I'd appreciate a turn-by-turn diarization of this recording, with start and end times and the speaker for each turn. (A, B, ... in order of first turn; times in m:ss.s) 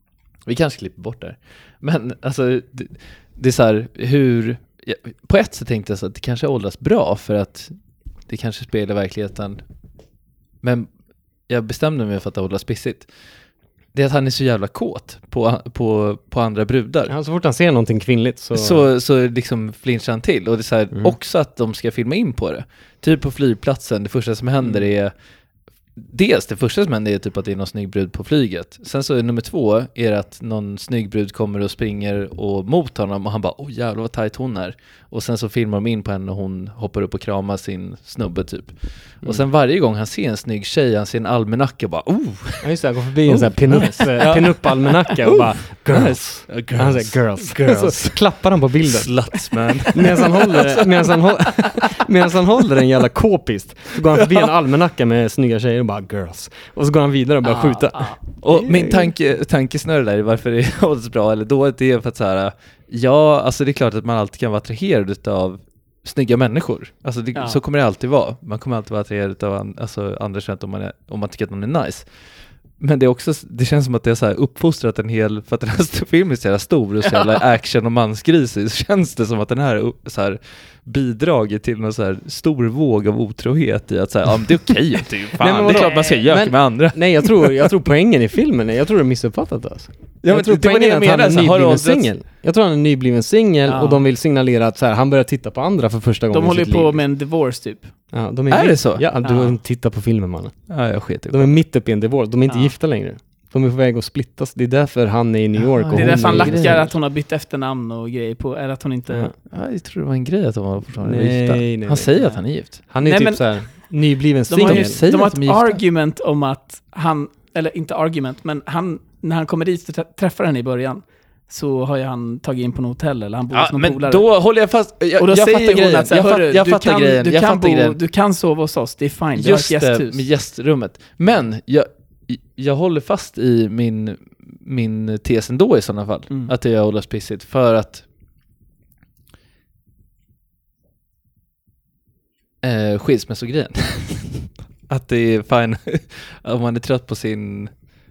0:00.4-0:07.8 A
0:08.3-0:09.6 A
0:10.6-0:10.9 A
0:11.5-0:13.1 A
0:13.9-0:17.1 A
0:17.1-0:18.9 B
0:18.5-0:25.1 A
0:26.0-0:42.7 A
0:42.6-0:49.1 B
0:43.2-0:48.1 A
0:48.8-0:50.9 A
0:49.9-0:59.1 B
0:54.1-0:54.5 A
0:57.4-0:58.2 C
0:58.4-1:12.1 A
1:07.4-1:07.6 C
1:12.8-1:27.7 A
1:25.4-1:37.0 B
1:25.6-1:26.2 C
1:30.2-1:32.1 A
1:33.7-1:34.0 C
1:36.3-1:37.9 C
1:38.1-1:40.7 B
1:38.5-1:39.0 A
1:39.2-1:39.6 C
1:40.7-1:41.6 A
1:41.3-1:46.9 B
1:42.5-1:42.8 C
1:45.6-1:46.9 A
1:45.9-1:49.3 C
1:49.5-1:52.8 A
1:51.0-1:52.2 B
1:52.9-1:55.0 B
1:53.0-1:53.9 C
1:54.5-2:04.3 C
1:54.6-1:55.8 A
2:03.5-2:08.0 A
2:05.2-2:10.2 C
2:09.4-2:18.0 A
2:22.6-2:27.7 A